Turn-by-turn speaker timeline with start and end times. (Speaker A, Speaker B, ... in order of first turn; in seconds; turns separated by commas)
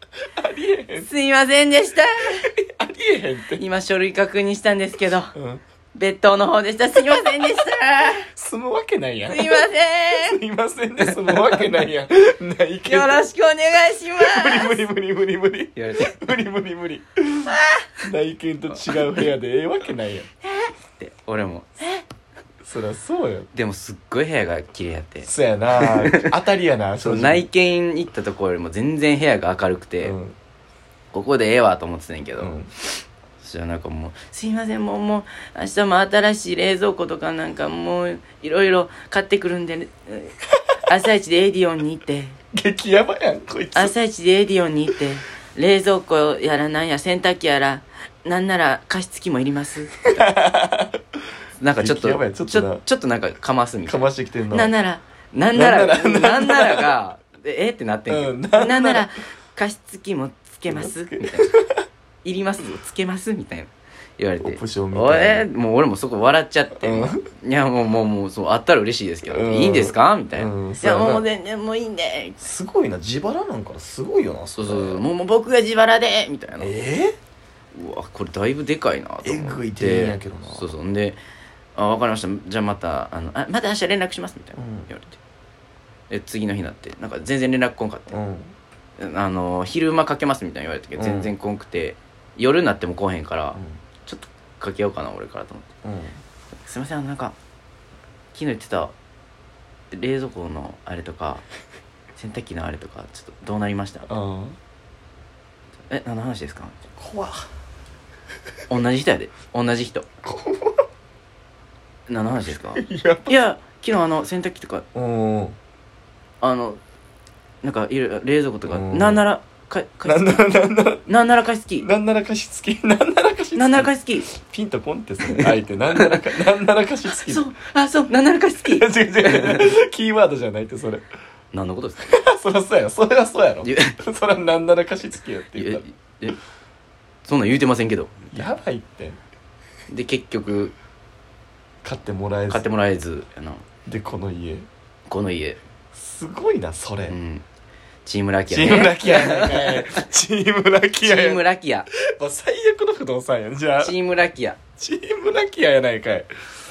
Speaker A: 0.3-1.1, Speaker B: 0.9-2.5, Speaker A: 2.3-3.6, Speaker B: 3.5-5.3, Speaker A: 5.3-5.6, Speaker B: 5.9-8.3, Speaker A: 8.3-13.3, Speaker B: 9.3-10.4, Speaker B: 11.0-11.7, Speaker B: 12.8-14.8, Speaker A: 14.2-20.3, Speaker B: 15.7-16.2, Speaker B: 17.5-17.8, Speaker B: 18.7-19.2, Speaker B: 20.4-22.0, Speaker A: 22.6-23.5, Speaker B: 23.5-26.3, Speaker A: 25.2-27.5, Speaker B: 27.0-30.1, Speaker A: 30.0-30.3, Speaker B: 31.1-32.5, Speaker A: 32.4-32.7, Speaker B: 33.4-42.4, Speaker A: 42.5-43.9, Speaker B: 43.7-50.3, Speaker A: 50.1-51.0, Speaker B: 51.6-61.5, Speaker A: 51.7-52.8, Speaker A: 53.9-54.7, Speaker A: 55.5-56.9, Speaker A: 58.1-59.1, Speaker A: 60.7-61.8, Speaker B: 62.2-72.5, Speaker A: 64.4-65.5, Speaker A: 66.8-67.2, Speaker A: 69.3-71.2, Speaker A: 72.4-75.0, Speaker B: 74.6-76.7, Speaker A: 76.6-77.1, Speaker B: 77.7-81.2, Speaker A: 79.2-80.7, Speaker B: 81.8-85.2, Speaker A: 84.5-84.9, Speaker B: 86.1-88.2, Speaker A: 88.1-88.5, Speaker B: 89.0-95.7, Speaker A: 91.0-91.3, Speaker A: 95.8-96.2, Speaker B: 96.7-97.3, Speaker B: 98.3-98.9, Speaker B: 99.9-101.4, Speaker B: 102.2-104.1, Speaker A: 104.1-104.6, Speaker B: 105.9-106.7, Speaker A: 107.0-107.5, Speaker B: 108.7-110.1, Speaker A: 110.2-110.9, Speaker B: 112.1-114.8, Speaker A: 112.8-113.3, Speaker A: 114.9-115.5, Speaker B: 116.4-116.8, Speaker B: 117.6-121.9, Speaker A: 118.7-119.2, Speaker A: 120.1-121.0, Speaker A: 121.8-127.5, Speaker B: 123.5-124.3, Speaker B: 125.3-126.2, Speaker B: 127.1-129.7, Speaker A: 128.6-131.0, Speaker B: 131.5-132.2, Speaker A: 132.1-135.8, Speaker B: 133.6-134.0, Speaker B: 135.5-136.4, Speaker B: 137.2-138.4, Speaker A: 138.3-139.2, Speaker B: 139.9-140.7, Speaker A: 141.8-142.7, Speaker B: 142.5-143.6, Speaker A: 143.8-144.7, Speaker B: 145.1-145.6, Speaker A: 145.9-147.2, Speaker B: 147.1-147.4, Speaker B: 148.0-150.0, Speaker A: 148.5-151.4, Speaker B: 151.0-151.9, Speaker A: 151.9-154.0, Speaker B: 153.8-154.6, Speaker A: 154.8-156.3